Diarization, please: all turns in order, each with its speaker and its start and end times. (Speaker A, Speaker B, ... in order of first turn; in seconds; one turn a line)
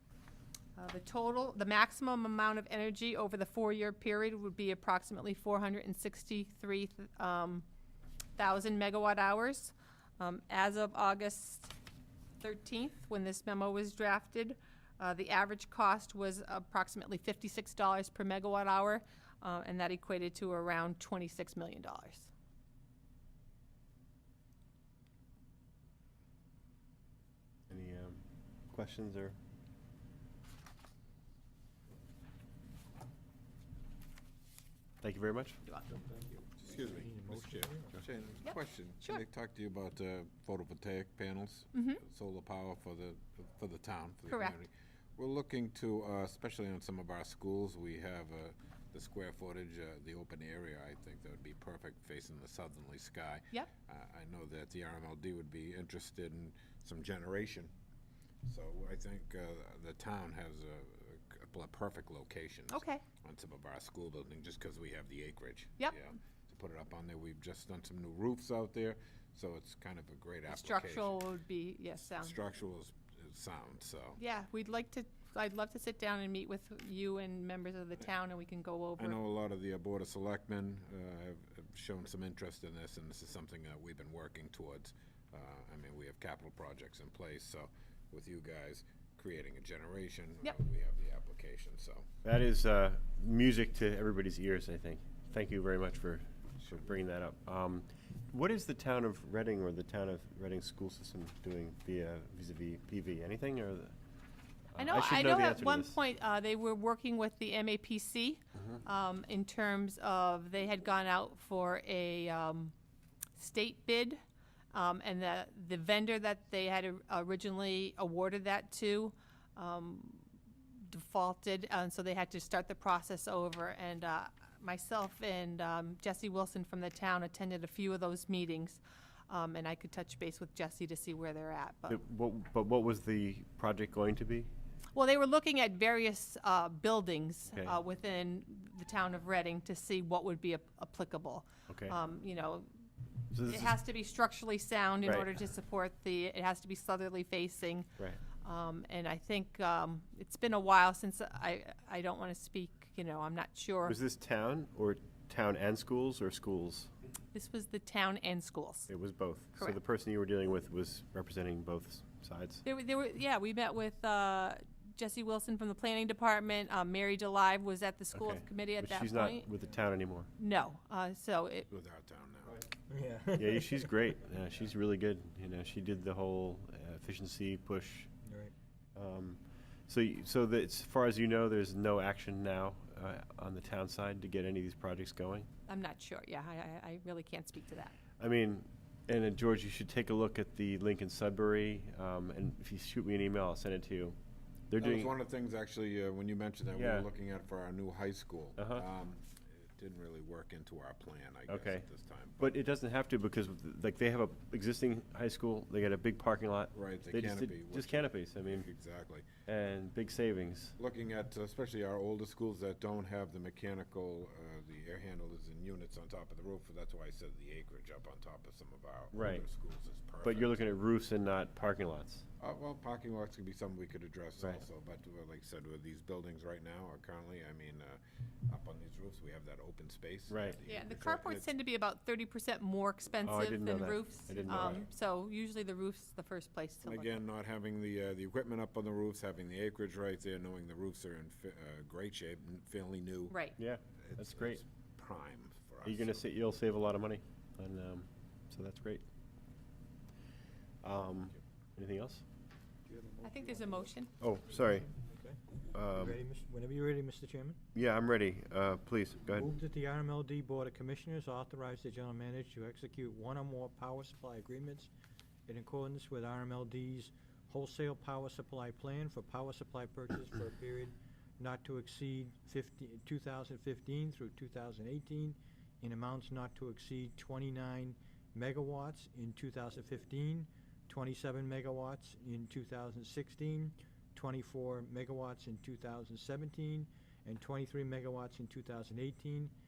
Speaker A: 0.8-7.6
Speaker A: 8.4-11.7
Speaker A: 12.4-22.3
Speaker B: 27.7-29.4
Speaker B: 35.0-35.6
Speaker A: 35.6-36.0
Speaker C: 36.6-57.7
Speaker D: 36.9-38.0
Speaker A: 38.4-39.2
Speaker A: 41.7-42.0
Speaker A: 44.3-44.6
Speaker C: 58.4-71.1
Speaker A: 62.7-63.0
Speaker A: 70.5-72.4
Speaker C: 72.2-74.2
Speaker A: 74.2-79.2
Speaker C: 79.0-92.1
Speaker B: 92.2-103.9
Speaker B: 104.7-106.0
Speaker A: 104.8-112.7
Speaker B: 108.5-108.8
Speaker A: 113.3-114.2
Speaker A: 114.7-120.3
Speaker A: 120.8-132.0
Speaker B: 131.9-134.5
Speaker A: 134.9-142.7
Speaker B: 137.5-137.8
Speaker B: 141.7-142.0
Speaker B: 143.3-143.7
Speaker A: 143.5-154.0
Speaker B: 153.8-156.9
Speaker A: 157.3-158.9
Speaker B: 158.9-162.6
Speaker A: 162.6-169.5
Speaker B: 168.1-170.3
Speaker A: 170.4-171.7
Speaker C: 171.7-172.6
Speaker D: 172.9-173.9
Speaker B: 173.3-178.1
Speaker D: 178.2-178.5
Speaker B: 178.9-185.5
Speaker A: 185.7-187.9
Speaker B: 188.2-194.2
Speaker B: 194.7-195.1
Speaker C: 194.8-202.4
Speaker B: 196.7-197.1
Speaker B: 198.6-198.8
Speaker B: 201.5-201.8
Speaker B: 202.4-208.7
Speaker C: 206.7-209.4
Speaker B: 209.5-210.7
Speaker C: 210.8-220.6
Speaker B: 219.1-219.4
Speaker B: 220.2-222.2
Speaker C: 222.4-231.5
Speaker B: 230.3-230.6
Speaker A: 230.6-237.2
Speaker B: 233.2-234.8
Speaker C: 236.8-243.3
Speaker A: 243.3-243.6
Speaker B: 243.6-244.6
Speaker C: 244.1-246.2
Speaker B: 245.8-249.0
Speaker B: 250.8-252.2
Speaker D: 252.9-253.3
Speaker A: 253.2-254.1
Speaker B: 254.2-254.9
Speaker D: 254.9-255.4
Speaker B: 255.7-256.2
Speaker D: 255.9-257.6
Speaker B: 257.7-259.5
Speaker D: 259.3-264.9
Speaker D: 265.5-289.5